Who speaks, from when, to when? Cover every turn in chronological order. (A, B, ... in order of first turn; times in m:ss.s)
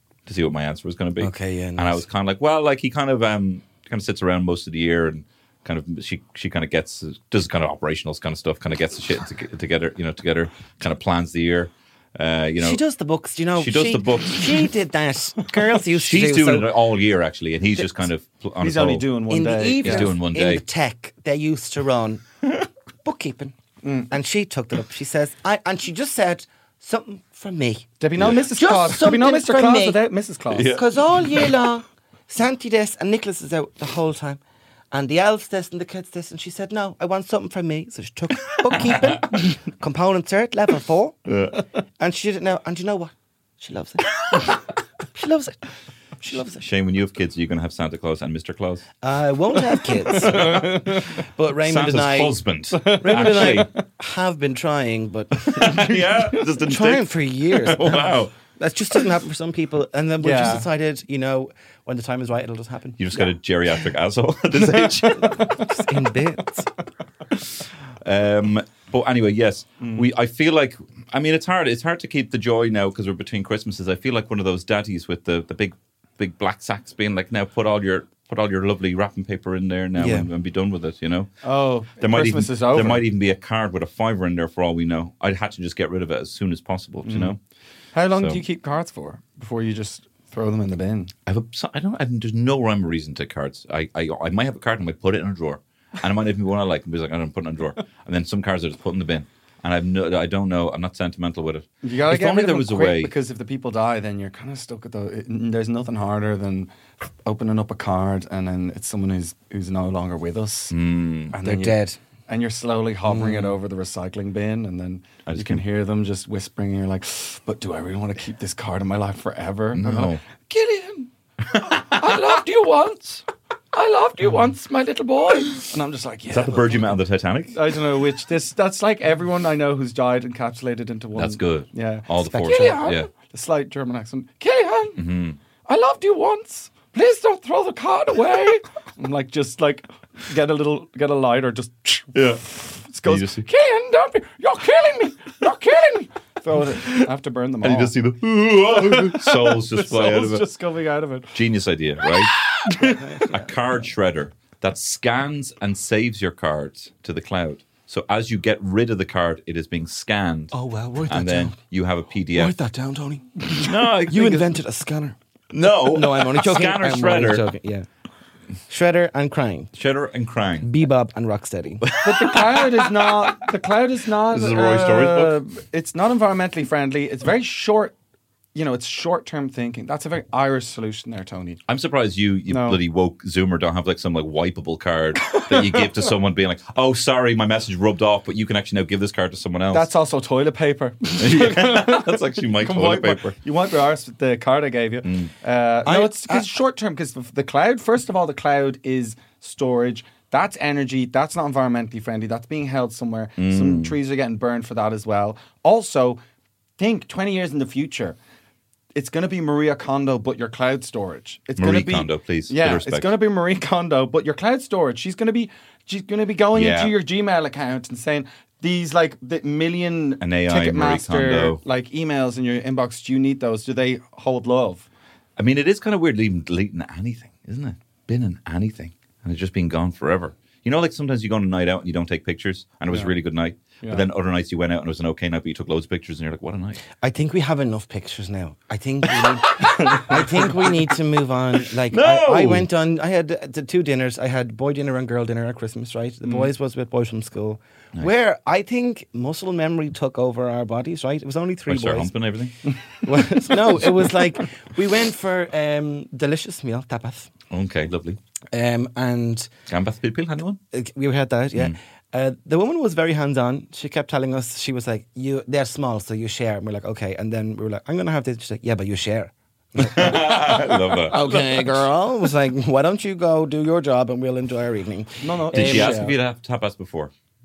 0:00.2-0:12.8 A
0:01.2-0:02.0 B
0:12.6-0:16.8 B
0:13.6-0:14.7 A
0:15.9-0:19.1 A
0:18.6-0:20.1 C
0:19.3-0:22.2 B
0:19.8-0:20.6 A
0:23.0-0:23.5 B
0:23.8-0:24.1 C
0:24.1-0:30.0 B
0:28.0-0:30.8 C
0:30.5-0:31.5 A
0:30.7-0:34.4 B
0:34.9-0:41.3 B
0:38.8-0:39.2 A
0:41.2-0:41.6 A
0:42.0-0:44.6 B
0:45.1-0:45.6 B
0:46.2-0:46.6 B
0:46.6-0:48.8 A
0:49.0-0:52.4 B
0:50.1-0:51.1 C
0:51.6-0:53.7 A
0:52.7-0:53.7 C
0:53.0-1:03.3 B
0:55.5-0:58.3 A
1:00.2-1:00.7 C
1:03.0-1:05.5 A
1:04.7-1:05.7 C
1:05.5-1:06.7 B
1:08.0-1:21.3 A
1:09.8-1:10.0 C
1:20.0-1:20.3 B
1:21.4-1:23.0 C
1:22.0-1:27.4 A
1:27.0-1:27.4 C
1:27.9-1:31.1 C
1:28.1-1:28.4 A
1:31.3-1:43.1 A
1:41.8-1:46.7 C
1:47.2-1:50.7 C
1:50.7-1:51.3 A
1:51.3-2:06.9 C
1:51.4-1:52.0 B
1:53.1-1:53.5 B
1:55.3-1:55.6 A
1:59.7-2:00.2 A
2:01.5-2:02.1 A
2:06.3-2:07.6 A
2:07.5-2:15.0 C
2:11.1-2:13.1 A
2:12.2-2:12.8 B
2:15.0-2:15.4 A
2:15.6-2:27.9 C
2:22.1-2:22.5 A
2:23.0-2:23.4 A
2:27.6-2:30.4 A
2:28.7-2:31.4 C
2:31.3-2:32.4 A
2:32.0-2:33.0 C
2:32.8-2:33.5 B
2:33.3-2:42.6 A
2:40.5-2:41.6 B
2:42.3-2:45.2 B
2:43.6-2:44.5 A
2:45.5-2:47.5 A
2:45.7-2:47.9 B
2:48.7-2:49.7 B
2:49.8-2:50.7 A
2:50.6-2:51.9 B
2:51.8-2:53.5 A
2:52.0-2:57.9 C
2:54.3-2:55.4 A
2:58.5-3:01.6 C
3:01.7-3:09.9 A
3:02.5-3:02.8 C
3:05.3-3:05.8 C
3:09.7-3:26.2 C
3:11.2-3:13.4 A
3:15.0-3:15.3 A
3:15.8-3:16.5 B
3:23.4-3:24.0 A
3:26.8-3:28.2 C
3:28.9-3:44.9 C
3:31.6-3:33.1 A
3:36.5-3:37.0 A
3:40.2-3:41.6 A
3:45.4-3:56.8 A
3:57.0-4:12.1 B
3:59.6-4:00.7 C
4:01.9-4:02.7 A
4:06.2-4:06.5 C
4:11.7-4:12.6 A
4:13.0-4:17.3 B
4:17.5-4:18.2 A
4:18.5-4:19.5 B
4:19.7-4:20.6 A
4:20.7-4:36.0 B
4:29.8-4:31.2 A
4:35.2-4:36.2 C
4:35.5-4:37.1 A